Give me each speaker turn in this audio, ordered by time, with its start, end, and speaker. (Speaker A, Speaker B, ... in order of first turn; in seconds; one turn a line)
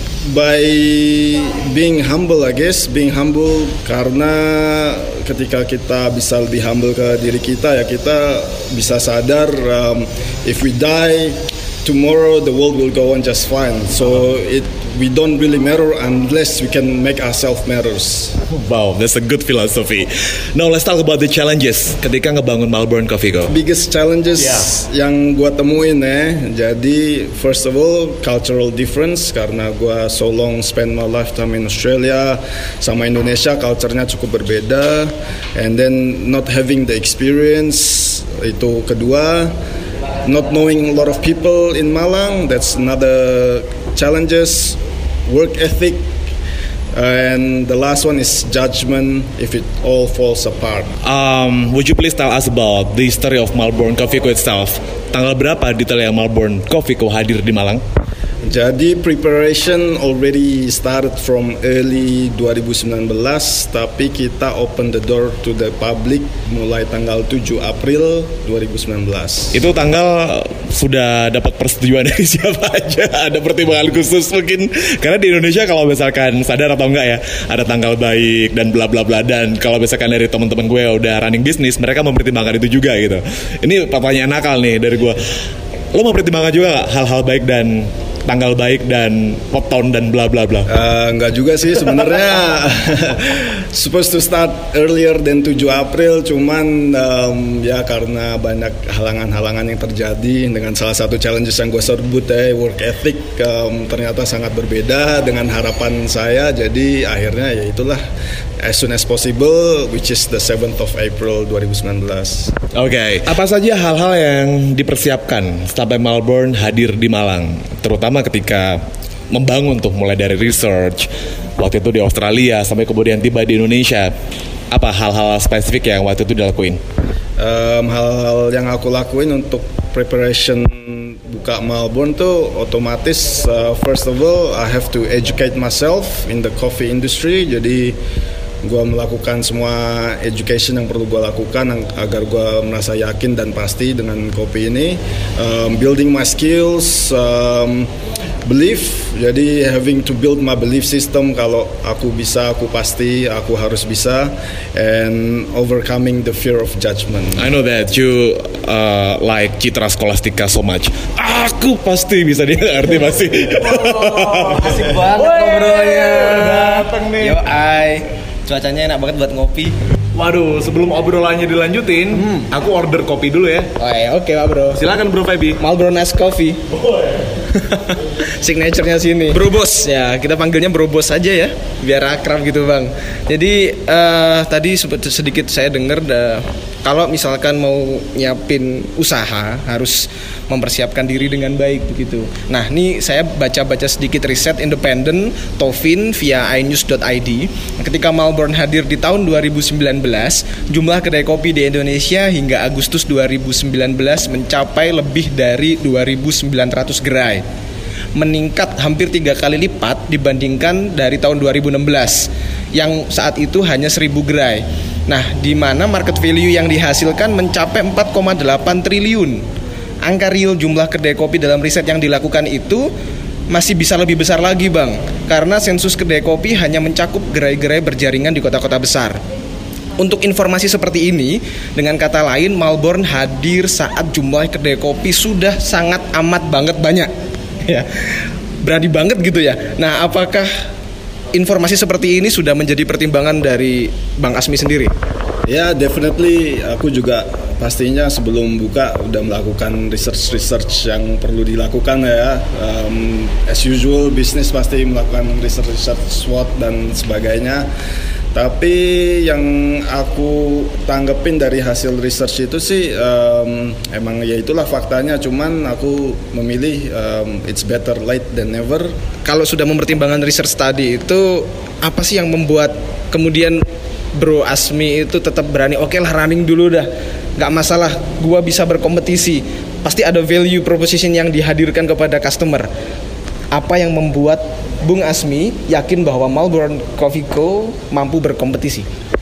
Speaker A: 0.2-18.4
Speaker B: 18.5-23.5
Speaker A: 23.5-39.5
Speaker B: 24.4-24.7
Speaker A: 40.2-46.0
Speaker A: 46.9-50.9
Speaker B: 51.0-57.8
Speaker A: 58.5-69.6
Speaker B: 69.5-85.2
Speaker B: 85.9-90.7
Speaker A: 90.7-108.0
Speaker A: 108.6-112.5
Speaker B: 112.7-124.1
Speaker B: 124.7-126.8
Speaker A: 127.4-138.0
Speaker A: 138.6-147.9
Speaker A: 148.4-157.4
Speaker B: 157.4-167.4
Speaker C: 163.8-169.8
Speaker B: 170.2-173.7
Speaker C: 172.1-172.5
Speaker C: 173.8-174.8
Speaker B: 174.8-175.6
Speaker C: 175.6-176.6
Speaker B: 176.7-177.3
Speaker C: 177.5-207.4
Speaker C: 208.2-219.4
Speaker C: 220.0-222.9
Speaker C: 223.5-229.2
Speaker C: 230.0-237.1
Speaker C: 238.6-240.5
Speaker C: 241.3-244.9
Speaker A: 245.5-257.7
Speaker A: 258.3-268.9
Speaker C: 269.2-282.7
Speaker C: 283.5-288.9